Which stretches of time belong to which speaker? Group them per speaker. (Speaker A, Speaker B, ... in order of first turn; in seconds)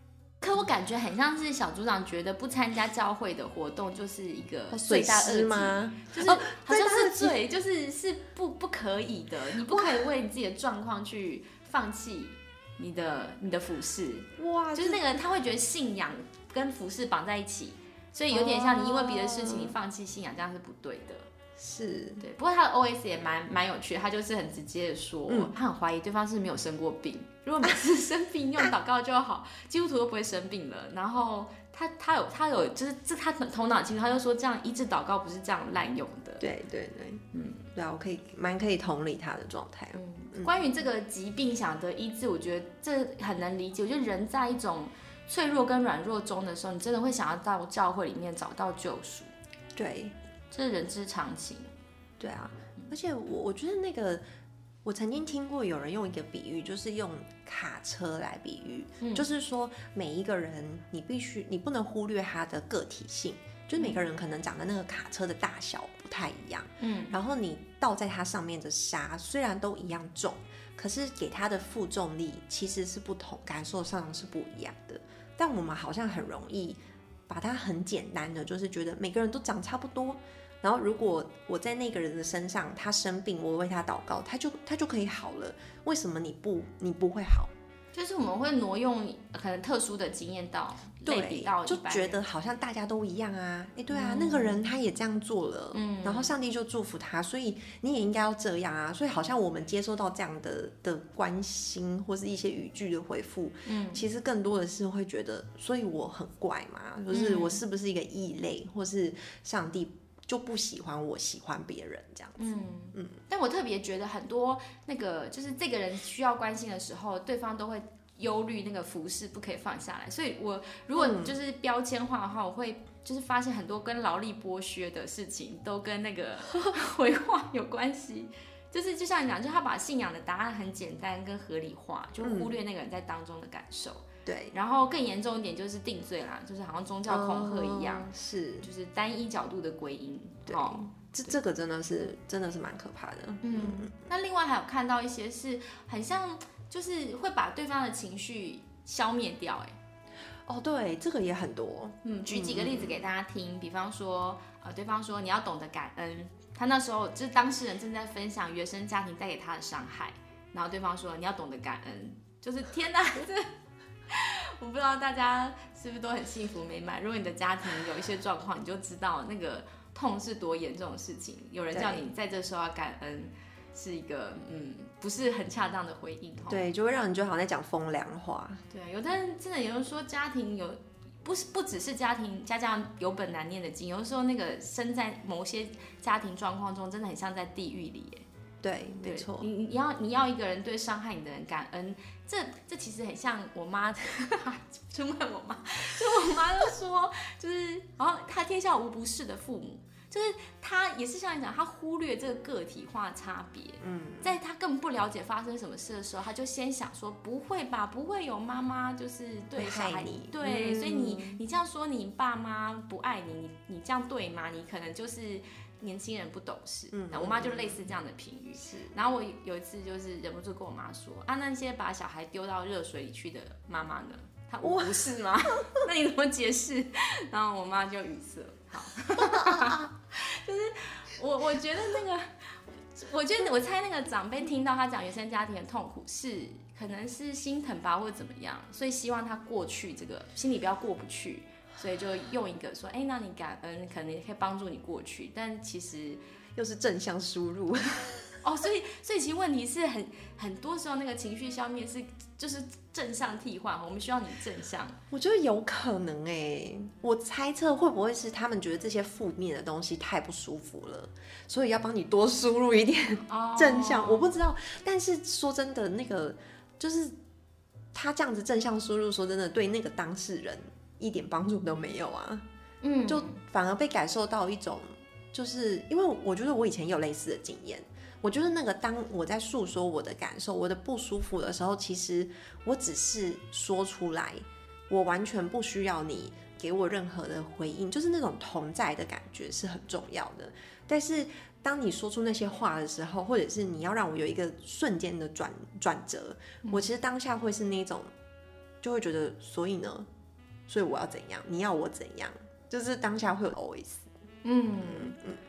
Speaker A: 0.4-21.3, 22.2-36.5, 37.3-37.6, 39.9-49.3, 50.5-51.7, 59.0-59.3, 66.8-67.2, 87.9-92.2, 93.9-94.6, 95.7-96.3, 103.7-104.0, 107.1-107.6, 112.4-138.1, 138.6-141.3, 143.4-149.8, 152.0-163.5, 164.1-176.6, 178.7-188.2, 189.0-246.2, 248.4-255.0, 263.3-264.2, 272.8-273.4, 296.6-296.9, 304.4-305.1
Speaker B: 4.7-7.4, 9.7-10.1, 14.4-15.2, 18.3-19.8, 21.6-22.2, 36.4-40.6, 49.8-50.1, 52.2-54.2, 54.9-87.5, 91.0-113.2, 120.9-121.3, 132.2-132.5, 134.2-134.5, 137.1-138.7, 140.5-143.9, 150.5-153.0, 171.7-172.1, 176.5-178.6, 188.6-189.5, 203.8-204.4, 209.6-211.4, 216.9-217.9, 218.6-218.9, 224.6-225.9, 229.2-229.9, 246.6-248.3, 255.1-267.1, 267.9-272.4, 273.1-298.1, 298.8-300.1, 300.7-304.1, 304.8-305.4